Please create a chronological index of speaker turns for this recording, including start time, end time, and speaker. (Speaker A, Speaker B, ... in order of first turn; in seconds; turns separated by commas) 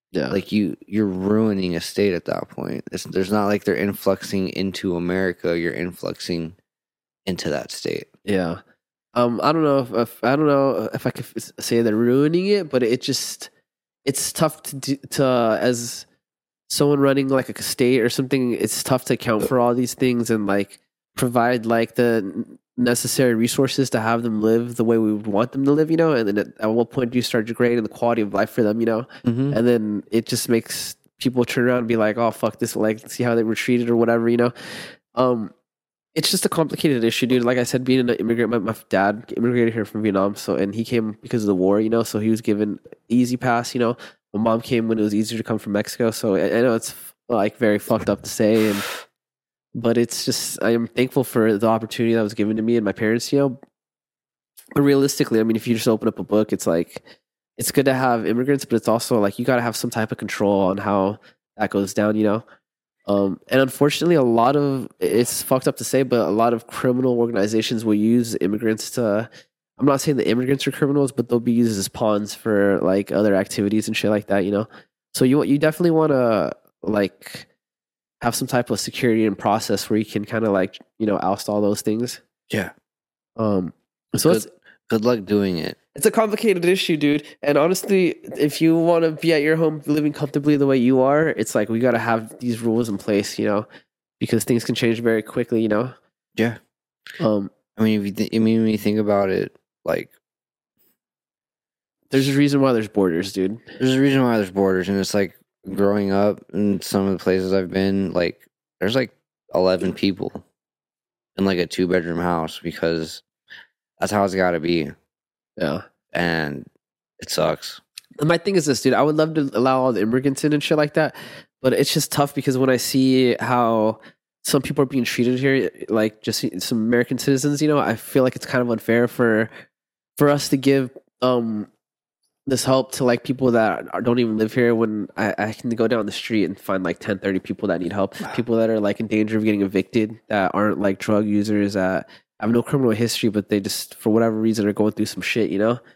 Speaker A: 0.1-0.4, Speaker B: 0.3-6.5, Speaker B: 7.2-8.1, Speaker A: 8.2-8.6, Speaker A: 9.1-13.5, Speaker A: 14.0-16.1, Speaker A: 16.7-34.5, Speaker B: 29.2-29.6, Speaker A: 35.1-35.5, Speaker A: 36.1-48.9, Speaker A: 49.7-53.6, Speaker A: 54.7-57.0, Speaker A: 57.6-62.4, Speaker A: 63.1-77.5, Speaker A: 78.2-82.2, Speaker A: 83.4-84.5, Speaker B: 84.2-85.8, Speaker A: 85.9-93.7, Speaker A: 94.2-95.9, Speaker A: 97.2-97.5, Speaker B: 97.8-100.1, Speaker A: 102.1-103.6, Speaker B: 103.8-110.4, Speaker B: 111.3-113.2, Speaker B: 114.0-114.9, Speaker A: 115.6-115.8, Speaker B: 116.1-116.7, Speaker B: 117.2-117.8, Speaker A: 118.2-129.5, Speaker A: 130.2-131.7, Speaker A: 132.5-145.8